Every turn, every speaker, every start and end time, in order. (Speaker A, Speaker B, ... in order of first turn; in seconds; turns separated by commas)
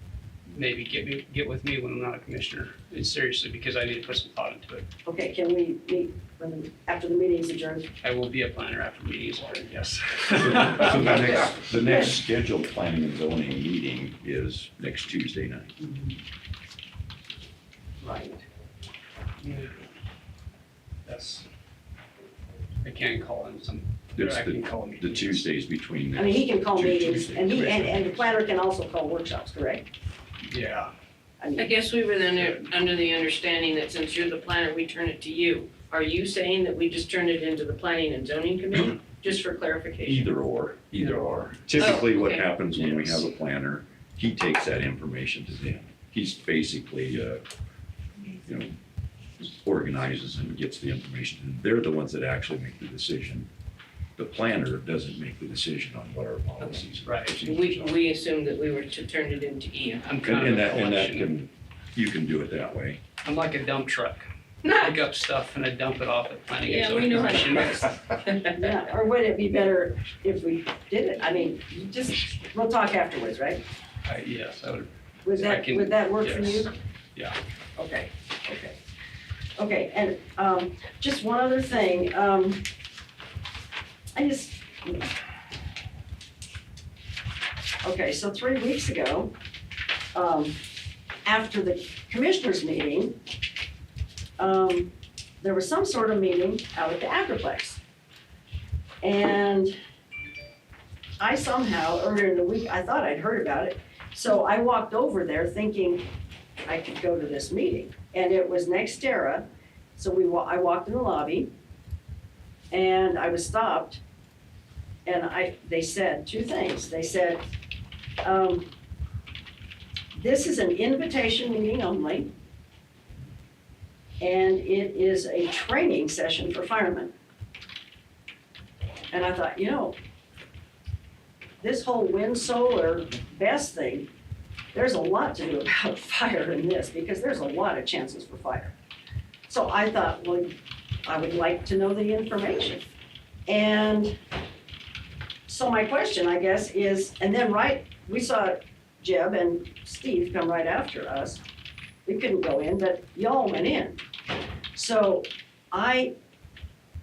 Speaker A: 0.5-4.8, Speaker B: 5.0-7.9, Speaker A: 8.0-11.2, Speaker C: 10.4-15.8, Speaker B: 18.0-18.4, Speaker A: 19.4-19.7, Speaker A: 21.1-21.4, Speaker A: 22.8-25.4, Speaker C: 24.1-28.2, Speaker B: 26.1-29.8, Speaker A: 30.5-30.9, Speaker B: 31.4-31.7, Speaker D: 31.6-40.3, Speaker C: 40.0-47.4, Speaker D: 41.0-43.2, Speaker C: 48.4-48.7, Speaker C: 49.4-53.5, Speaker C: 54.2-58.0, Speaker A: 57.0-57.3, Speaker D: 57.4-60.1, Speaker A: 60.0-61.3, Speaker C: 60.2-63.0, Speaker A: 63.2-68.0, Speaker D: 64.6-64.9, Speaker D: 66.6-68.5, Speaker B: 68.5-73.6, Speaker A: 74.0-77.4, Speaker B: 75.2-76.7, Speaker B: 77.8-78.8, Speaker B: 79.6-82.6, Speaker B: 84.1-85.1, Speaker B: 87.8-89.3, Speaker B: 90.1-90.6, Speaker B: 91.2-93.2, Speaker B: 94.4-97.8, Speaker B: 99.0-99.7, Speaker B: 101.2-106.0, Speaker B: 106.7-109.4, Speaker B: 110.0-111.5, Speaker B: 112.7-114.0, Speaker B: 115.0-117.4, Speaker B: 118.2-118.7, Speaker B: 120.1-122.3, Speaker B: 124.2-127.1, Speaker B: 129.1-129.9, Speaker B: 131.6-134.1, Speaker B: 134.7-138.7, Speaker B: 139.5-140.5, Speaker B: 141.1-142.8, Speaker B: 143.5-144.1, Speaker B: 145.5-151.4, Speaker B: 152.1-154.0, Speaker B: 154.7-156.1